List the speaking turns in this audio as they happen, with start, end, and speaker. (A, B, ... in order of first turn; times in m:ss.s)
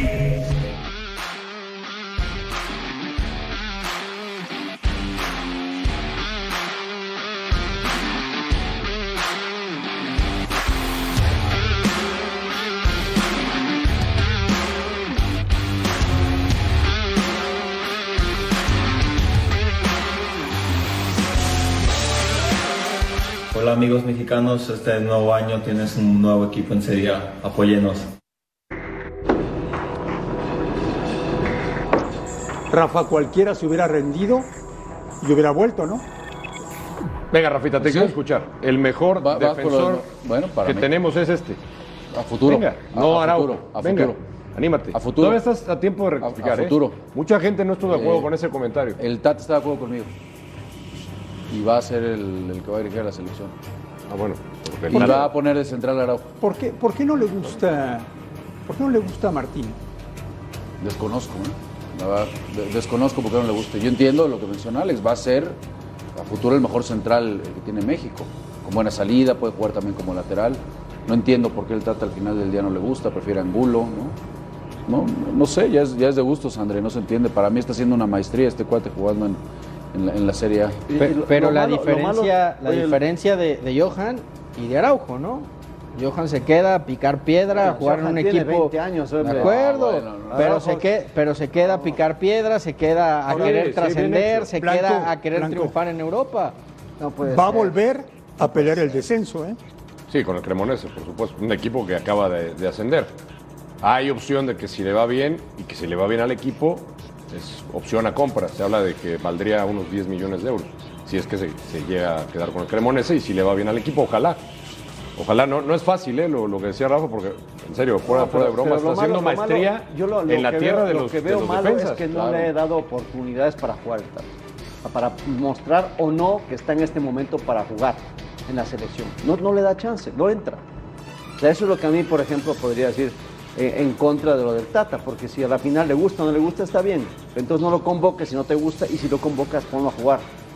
0:23.5-0:28.0 A
0:32.7-0:34.5 B
0:35.2-0:36.0 B
0:37.3-0:40.0 C
0:37.8-0:38.2 D
0:39.2-0:40.9 D
0:40.6-0:41.6 C
0:42.1-0:44.2 D
0:42.4-0:49.0 C
0:44.9-0:45.4 D
0:46.2-0:47.0 D
0:47.8-0:48.3 D
0:49.0-0:50.1 D
0:51.5-0:53.5 D
0:54.1-0:55.3 C
0:54.9-0:56.3 D
0:56.4-0:58.1 B
0:58.6-0:59.8 B
1:00.8-1:05.6 D
1:06.1-1:14.2 D
1:14.9-1:19.4 D
1:19.9-1:20.8 D
1:20.9-1:23.0 E
1:21.0-1:36.6 F
1:27.5-1:29.5 E
1:29.2-1:30.8 D
1:30.3-1:30.7 E
1:31.5-1:32.0 E
1:33.3-1:34.5 C
1:34.5-1:35.7 B
1:37.0-1:37.7 E
1:37.2-1:39.6 B
1:38.4-1:39.0 E
1:40.1-1:43.1 C
1:43.8-1:54.4 C
1:55.2-2:02.0 C
1:58.0-2:04.3 E
2:02.1-2:02.5 D
2:04.8-2:10.6 E
2:11.4-2:20.3 E